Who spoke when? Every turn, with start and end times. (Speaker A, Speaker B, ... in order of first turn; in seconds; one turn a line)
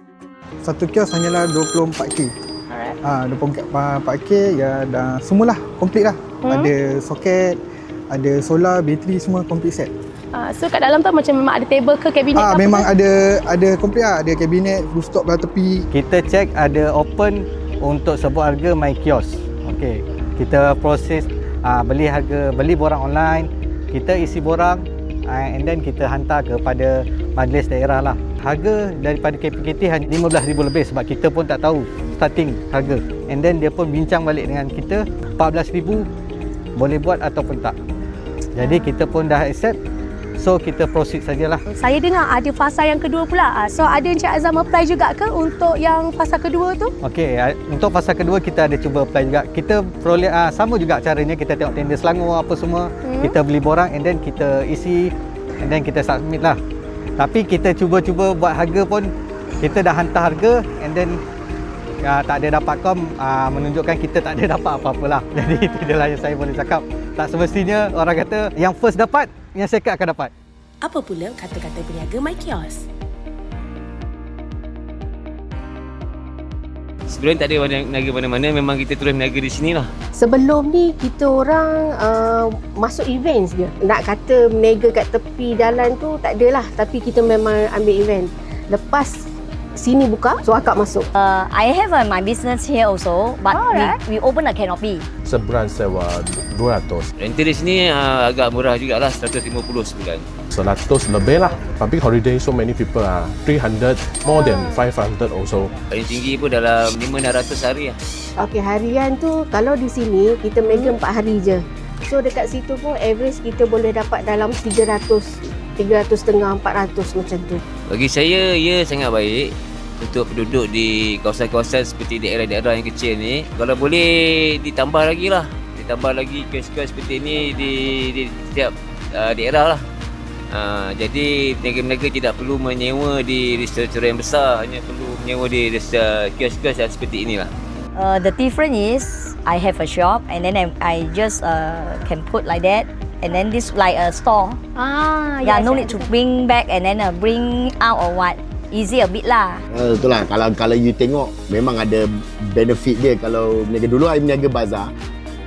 Speaker A: 0.6-2.3
Speaker A: 3.0-7.6
Speaker B: 6.4-6.7
Speaker A: 8.1-9.9
Speaker B: 10.3-12.9
Speaker A: 12.3-15.8
Speaker C: 15.9-36.1
Speaker C: 36.8-37.7
Speaker C: 38.5-39.8
Speaker C: 40.4-41.6
Speaker B: 41.7-46.9
Speaker C: 47.0-56.6
Speaker B: 53.0-53.3
Speaker C: 57.2-61.2
Speaker C: 62.0-70.3
Speaker D: 70.8-72.9
Speaker E: 77.1-79.9
Speaker F: 80.1-91.1
Speaker G: 91.1-95.1
Speaker B: 93.5-93.9
Speaker H: 95.2-97.1
Speaker E: 97.2-100.2
Speaker H: 100.5-105.7
Speaker E: 105.9-107.9
Speaker F: 108.4-117.6
Speaker E: 117.9-129.8
Speaker E: 130.5-137.5
Speaker G: 137.9-144.6
Speaker G: 145.4-149.6
Speaker I: 149.7-154.9